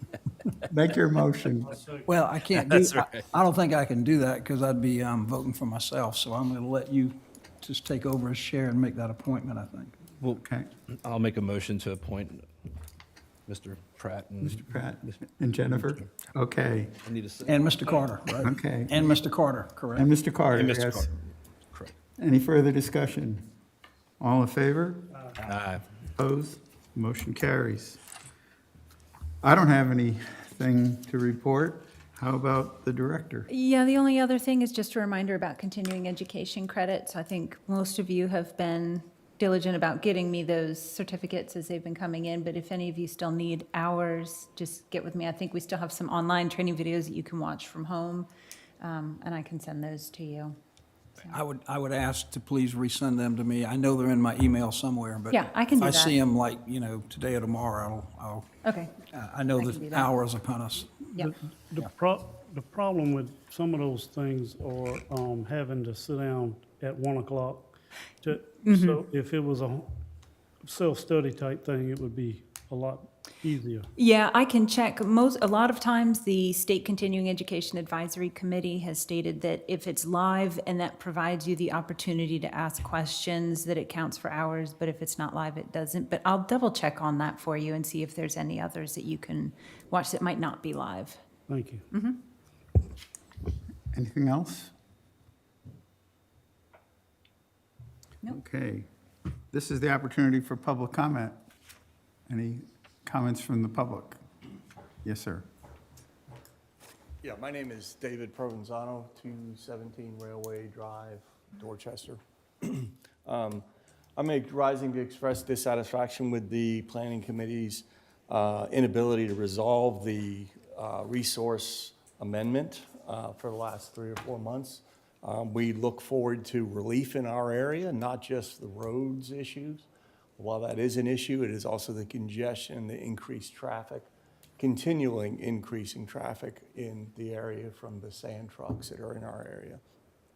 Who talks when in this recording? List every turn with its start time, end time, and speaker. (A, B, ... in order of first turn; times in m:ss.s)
0:00.6-0:01.8 A
0:01.7-0:02.1 B
0:02.0-0:10.0 C
0:02.8-0:03.2 D
0:10.2-0:12.5 D
0:10.3-0:10.7 A
0:13.5-0:14.7 D
0:14.4-0:17.0 A
0:17.0-0:17.7 D
0:17.4-0:20.1 C
0:18.4-0:19.1 A
0:19.9-0:21.1 A
0:20.5-0:21.9 D
0:22.2-0:23.4 A
0:24.2-0:25.2 A
0:25.4-0:25.8 D
0:26.1-0:28.0 A
0:29.4-0:33.5 A
0:33.5-0:48.3 E
0:48.8-0:50.6 E
0:51.2-0:58.5 C
0:55.3-0:56.2 E
0:58.6-0:59.0 E
0:59.1-1:00.9 C
0:59.5-1:00.1 E
1:01.2-1:07.7 B
1:08.2-1:09.9 B
1:08.6-1:09.0 E
1:10.6-1:13.9 B
1:14.0-1:31.2 E
1:31.5-1:31.8 B
1:31.9-1:32.2 E
1:33.9-1:34.7 A
1:38.2-1:38.9 A
1:39.5-1:41.4 A
1:42.3-1:44.2 A
1:45.0-1:45.5 A
1:47.2-2:19.8 F